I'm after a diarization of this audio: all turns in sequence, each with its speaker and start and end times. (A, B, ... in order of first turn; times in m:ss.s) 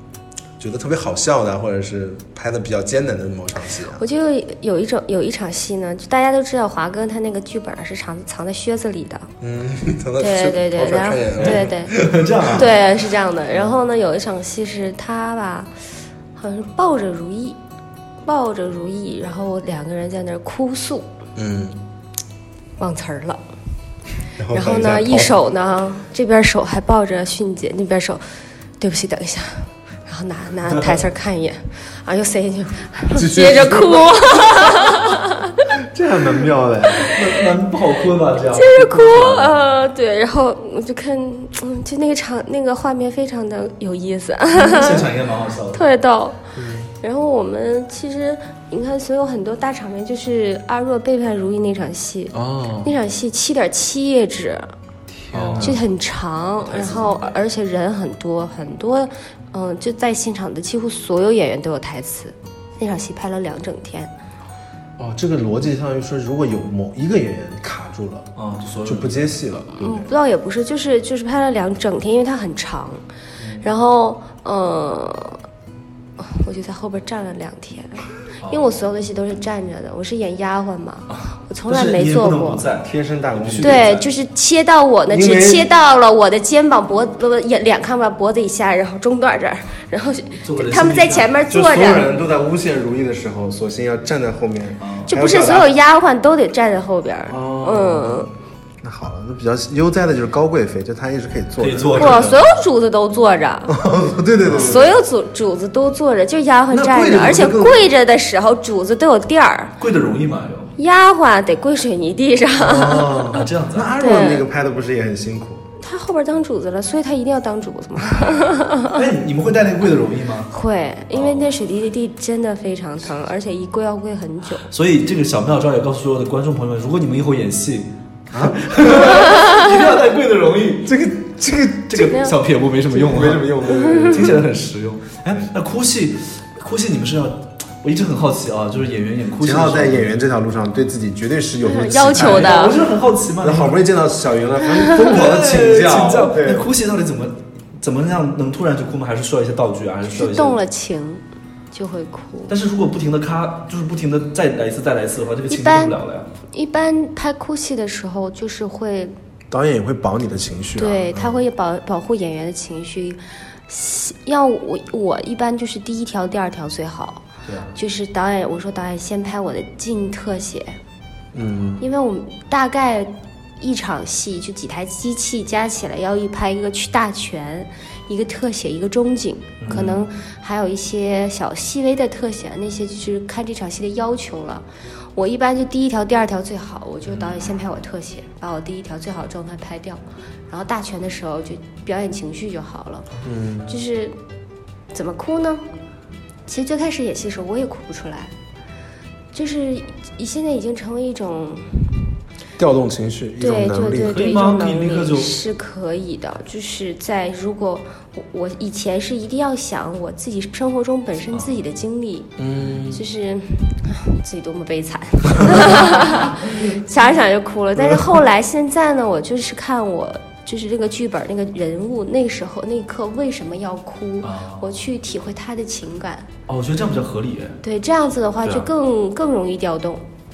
0:00.6-0:04.0 A
0:03.9-0:09.3 B
0:09.4-0:12.6 A
0:10.2-0:11.9 B
0:11.4-0:12.8 C
0:12.5-0:15.7 B
0:16.4-0:17.6 B
0:18.2-0:21.1 B
0:21.4-0:21.8 A
0:22.8-0:23.4 B
0:24.4-0:25.3 A
0:24.5-0:28.2 B
0:28.8-0:35.6 B
0:33.1-0:34.7 A
0:35.8-0:37.2 A
0:37.1-0:39.6 C
0:38.6-0:45.1 B
0:44.6-0:45.8 C
0:45.7-0:46.4 B
0:46.6-0:46.9 A
0:47.0-0:54.7 B
0:52.3-0:52.9 A
0:55.3-0:55.8 A
0:55.3-0:55.8 C
0:55.6-1:04.1 B
0:56.6-0:57.4 C
1:05.0-1:08.3 A
1:08.4-1:09.2 C
1:08.8-1:10.1 A
1:09.7-1:13.0 B
1:13.4-1:13.6 A
1:13.6-1:15.4 B
1:16.2-1:22.6 B
1:18.4-1:18.8 C
1:21.1-1:24.0 C
1:22.8-1:24.0 A
1:23.6-1:32.1 B
1:25.1-1:25.7 A
1:30.4-1:31.3 C
1:31.5-1:35.7 A
1:34.8-1:35.1 C
1:35.1-1:38.3 B
1:37.3-1:38.3 A
1:38.8-1:42.4 A
1:41.6-1:42.4 C
1:42.0-1:43.8 B
1:43.7-1:45.0 A
1:44.4-1:44.8 C
1:44.6-1:49.7 B
1:46.8-1:47.8 A
1:46.9-1:47.6 C
1:49.8-1:50.7 C
1:50.8-1:53.4 B
1:52.6-1:55.7 A
1:53.3-1:53.9 C
1:54.0-1:54.4 B
1:55.8-1:59.0 B
1:58.9-2:00.5 C
2:00.5-2:04.7 B
2:01.1-2:01.5 C
2:04.7-2:11.0 C
2:08.3-2:09.3 A
2:09.2-2:09.6 B
2:10.8-2:12.2 A
2:11.9-2:20.2 C
2:12.0-2:12.3 B
2:12.9-2:14.4 A
2:13.7-2:14.2 B
2:19.4-2:22.8 A
2:21.6-2:22.8 B
2:22.1-2:23.8 C
2:23.4-2:26.7 A
2:24.9-2:30.6 C
2:30.0-2:32.5 B
2:32.5-2:36.3 C
2:35.5-2:36.0 B
2:36.5-2:39.1 B
2:39.5-2:41.4 A
2:40.8-2:50.8 B
2:47.4-2:47.7 C
2:51.4-2:51.8 A
2:51.8-3:04.6 B
2:59.6-3:00.0 C
3:05.2-3:13.1 B
3:07.1-3:07.4 C
3:13.2-3:13.8 A
3:13.7-3:14.2 B
3:14.9-3:15.6 B
3:16.5-3:18.3 B
3:19.3-3:22.0 B
3:22.6-3:24.3 A
3:23.4-3:32.3 B
3:24.1-3:25.4 C
3:32.4-3:33.0 A
3:32.9-3:46.3 B
3:37.8-3:38.1 A
3:44.2-3:44.7 C
3:46.5-3:47.6 C
3:47.6-3:50.0 B